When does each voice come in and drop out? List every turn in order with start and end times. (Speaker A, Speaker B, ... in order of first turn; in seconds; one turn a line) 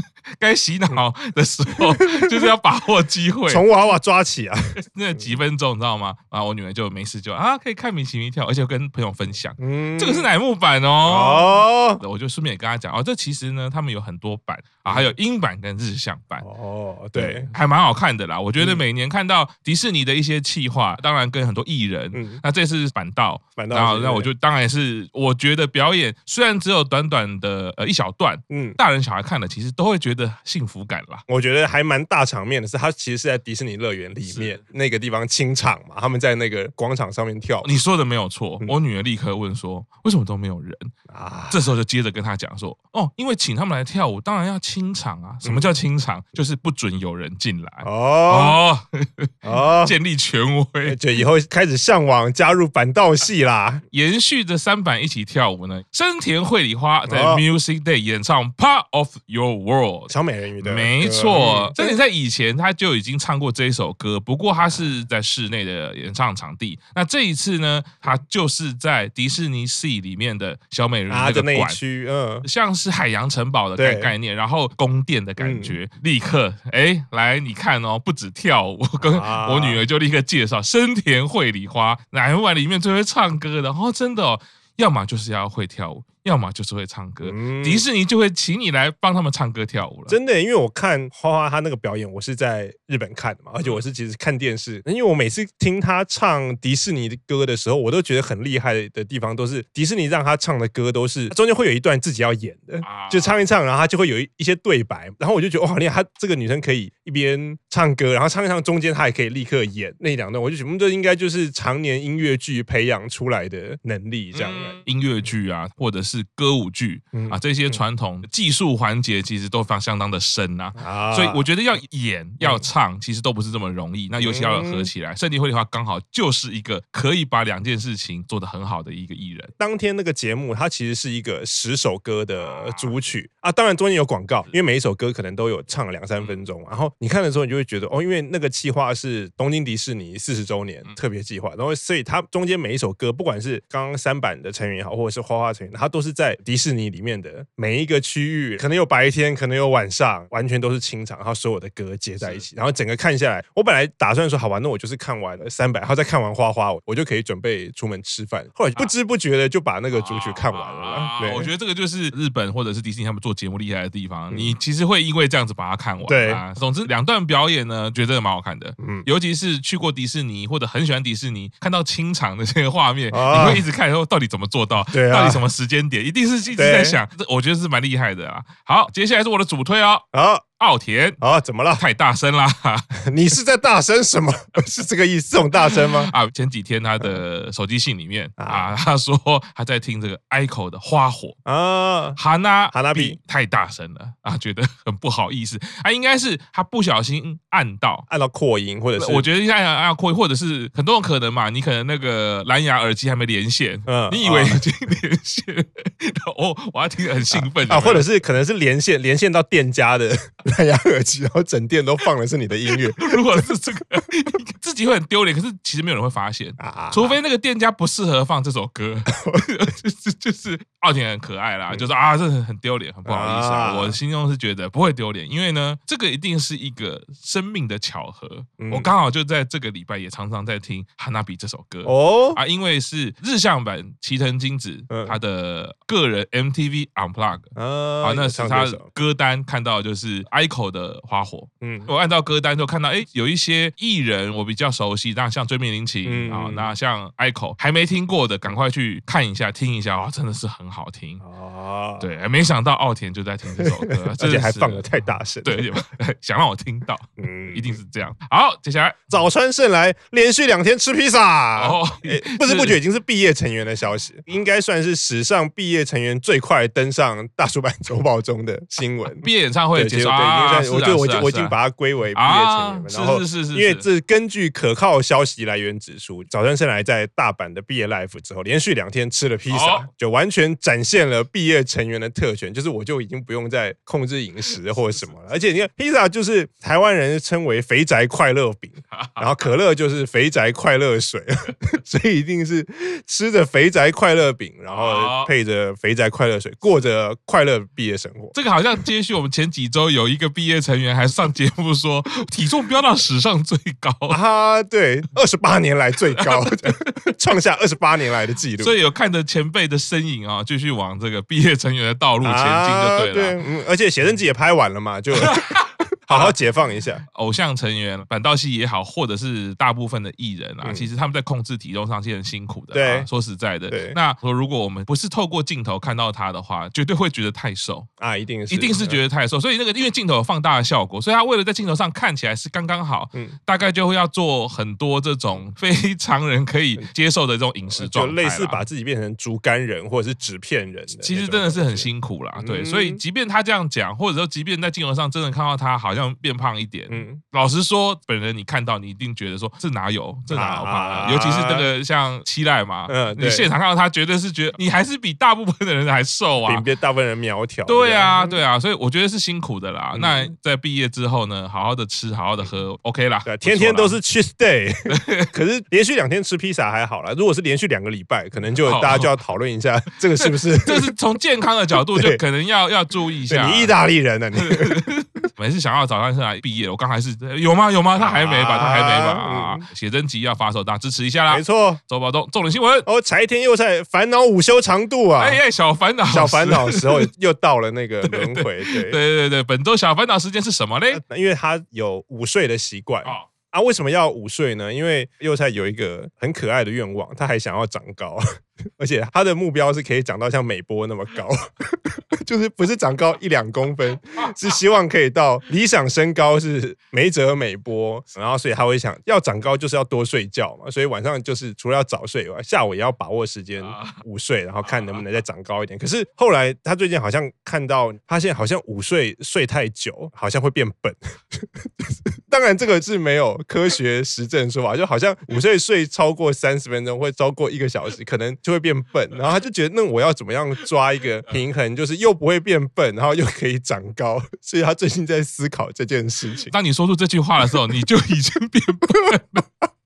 Speaker A: 0.4-3.6
Speaker B: 1.8-2.5
Speaker B: 3.5-4.6
Speaker A: 4.8-16.4
Speaker B: 9.6-10.3
Speaker B: 11.1-12.0
Speaker B: 14.8-15.2
Speaker B: 16.4-17.5
Speaker A: 17.1-31.2
Speaker B: 18.6-18.8
Speaker B: 22.1-22.4
Speaker B: 23.6-24.3
Speaker B: 28.5-28.8
Speaker B: 31.3-37.7
Speaker A: 34.2-34.6
Speaker A: 37.6-40.9
Speaker B: 41.1-41.6
Speaker A: 41.5-51.0
Speaker B: 45.4-45.7
Speaker B: 47.8-48.6
Speaker B: 49.4-50.0
Speaker B: 50.9-53.8
Speaker A: 53.9-71.8
Speaker B: 57.1-57.4
Speaker B: 60.1-62.0
Speaker B: 71.1-72.5
Speaker A: 72.4-90.2
Speaker B: 73.8-74.1
Speaker B: 75.4-75.8
Speaker B: 79.0-79.8
Speaker B: 87.2-87.9
Speaker B: 90.1-114.8
Speaker A: 102.8-103.4
Speaker A: 114.3-129.5
Speaker B: 117.1-117.8
Speaker B: 120.8-121.4
Speaker B: 124.2-124.9
Speaker B: 129.6-161.5
Speaker A: 132.4-132.9
Speaker A: 159.9-180.1
Speaker B: 164.3-164.6
Speaker B: 166.1-166.4
Speaker B: 168.8-169.1
Speaker B: 173.1-173.7
Speaker B: 174.9-175.4
Speaker B: 176.5-177.0
Speaker B: 180.1-180.4
Speaker A: 180.6-181.2
Speaker B: 181.2-181.8
Speaker A: 181.8-182.9
Speaker B: 183.1-186.1
Speaker A: 185.7-191.4
Speaker B: 188.4-188.7
Speaker B: 191.5-192.2
Speaker A: 192.2-198.1
Speaker B: 192.7-193.2
Speaker B: 198.1-199.3
Speaker A: 199.0-208.1
Speaker B: 203.9-204.6
Speaker B: 207.3-213.5
Speaker A: 212.7-237.5
Speaker B: 216.6-217.2
Speaker B: 219.1-219.4
Speaker B: 223.1-224.0
Speaker B: 228.6-228.9
Speaker B: 231.8-232.4
Speaker B: 234.9-235.2
Speaker B: 237.6-238.9
Speaker A: 238.0-251.2
Speaker B: 241.6-241.9
Speaker B: 246.1-246.7
Speaker B: 251.2-252.1
Speaker A: 252.0-259.1
Speaker B: 253.6-255.7
Speaker B: 257.2-257.8
Speaker B: 259.1-298.4
Speaker A: 261.6-262.8
Speaker A: 269.1-271.6
Speaker A: 272.1-273.9
Speaker A: 279.5-279.9
Speaker A: 288.9-289.4
Speaker A: 294.7-295.3
Speaker A: 298.3-304.2
Speaker B: 304.1-308.8
Speaker A: 306.2-306.7
Speaker A: 308.6-313.4
Speaker B: 312.2-317.0
Speaker A: 315.2-316.4
Speaker A: 317.1-327.9
Speaker B: 320.6-320.9
Speaker B: 322.7-323.1
Speaker B: 323.7-324.0
Speaker B: 328.0-329.0
Speaker A: 328.5-338.6
Speaker B: 337.7-343.0
Speaker A: 341.0-356.7
Speaker B: 346.9-347.2
Speaker B: 350.3-351.7
Speaker B: 352.9-353.5
Speaker B: 356.4-358.4
Speaker A: 357.7-364.0
Speaker B: 359.9-360.3
Speaker B: 363.2-370.9
Speaker A: 364.9-365.3
Speaker A: 368.6-369.2
Speaker A: 370.2-373.8
Speaker B: 371.9-372.2
Speaker B: 373.3-374.9
Speaker A: 374.4-382.9
Speaker B: 378.0-379.6
Speaker B: 381.3-381.8
Speaker B: 382.9-385.4
Speaker A: 385.2-387.1
Speaker B: 386.1-389.0
Speaker A: 388.1-391.0
Speaker B: 390.9-398.2
Speaker B: 398.8-436.5
Speaker A: 413.6-414.0
Speaker A: 414.6-415.1
Speaker A: 436.4-439.4